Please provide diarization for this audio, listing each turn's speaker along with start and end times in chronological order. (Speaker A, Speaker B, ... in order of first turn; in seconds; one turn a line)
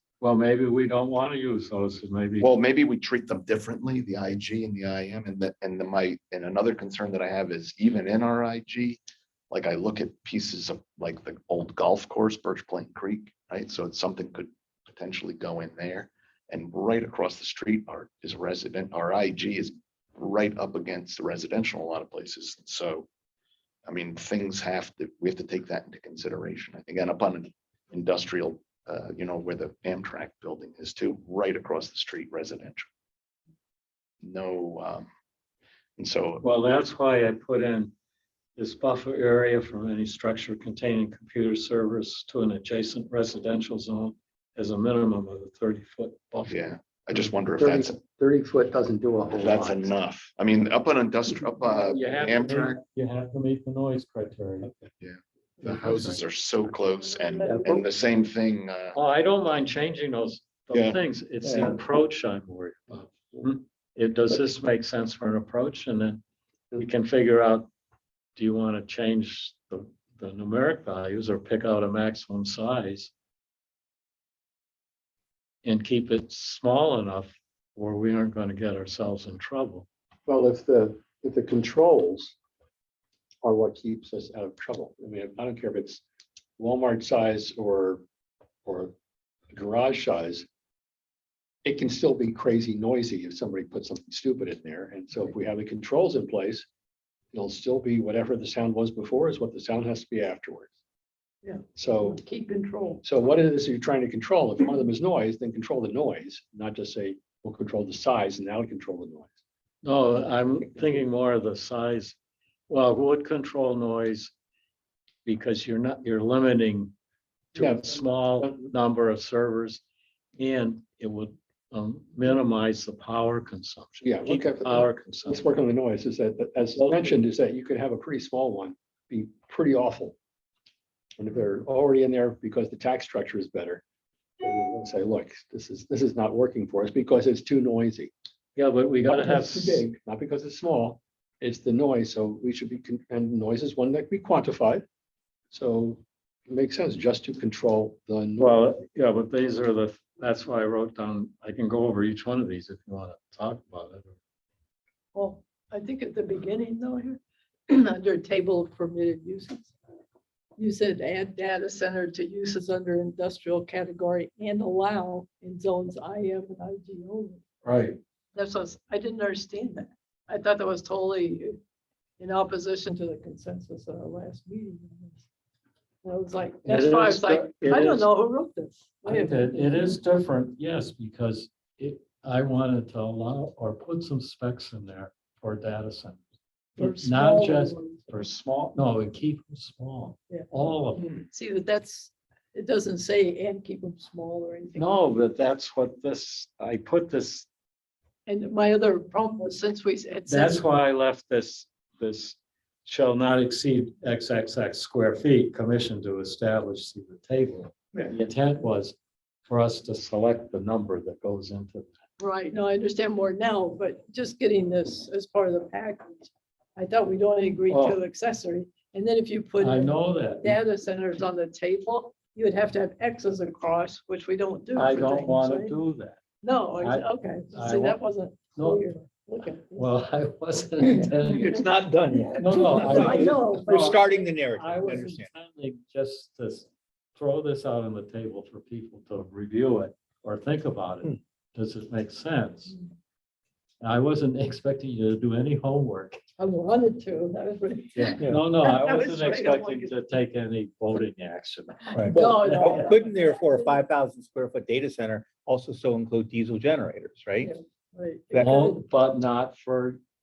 Speaker A: 0.2-2.5
Speaker B: 2.4-9.0
Speaker B: 9.5-23.1
Speaker B: 23.9-32.9
Speaker B: 34.2-35.1
Speaker B: 36.0-36.4
Speaker A: 36.4-37.9
Speaker A: 38.6-46.7
Speaker B: 46.5-48.0
Speaker C: 47.5-49.9
Speaker B: 49.3-52.8
Speaker A: 51.7-54.7
Speaker C: 54.6-54.9
Speaker B: 55.0-59.0
Speaker C: 55.6-56.2
Speaker D: 57.1-57.8
Speaker C: 57.5-57.8
Speaker A: 58.9-66.2
Speaker B: 60.7-61.0
Speaker C: 61.4-61.7
Speaker C: 63.1-63.4
Speaker A: 66.8-67.7
Speaker A: 68.3-73.1
Speaker A: 75.6-79.9
Speaker C: 80.2-82.3
Speaker C: 83.4-86.0
Speaker C: 86.6-88.0
Speaker C: 88.6-88.9
Speaker C: 89.5-90.5
Speaker C: 91.6-96.7
Speaker C: 97.3-100.7
Speaker D: 101.4-103.0
Speaker C: 101.7-102.2
Speaker C: 103.0-109.3
Speaker A: 109.8-112.2
Speaker A: 112.7-114.3
Speaker A: 115.2-116.9
Speaker A: 117.5-119.8
Speaker C: 117.5-118.7
Speaker A: 120.4-125.5
Speaker C: 124.0-130.2
Speaker A: 126.8-127.1
Speaker C: 131.2-133.8
Speaker C: 134.4-138.1
Speaker A: 138.6-139.8
Speaker C: 139.0-144.8
Speaker C: 145.5-148.6
Speaker A: 148.4-154.2
Speaker D: 155.1-159.7
Speaker D: 160.6-167.4
Speaker A: 167.6-168.0
Speaker D: 168.3-171.6
Speaker D: 172.2-175.2
Speaker D: 176.0-180.0
Speaker A: 176.6-178.1
Speaker A: 179.1-186.2
Speaker D: 186.8-188.0
Speaker A: 186.8-191.2
Speaker D: 191.3-194.9
Speaker A: 194.8-197.5
Speaker D: 198.2-200.6
Speaker A: 200.3-211.9
Speaker D: 212.2-225.8
Speaker A: 217.7-218.0
Speaker A: 219.6-220.6
Speaker A: 224.8-226.2
Speaker D: 226.4-229.9
Speaker A: 226.8-228.8
Speaker A: 229.7-231.6
Speaker E: 231.0-235.3
Speaker A: 232.3-242.8
Speaker D: 232.5-234.0
Speaker A: 243.8-246.2
Speaker D: 246.4-249.9
Speaker A: 247.9-252.9
Speaker E: 251.9-257.5
Speaker D: 252.0-253.8
Speaker D: 257.4-258.7
Speaker E: 258.3-258.8
Speaker A: 258.4-260.0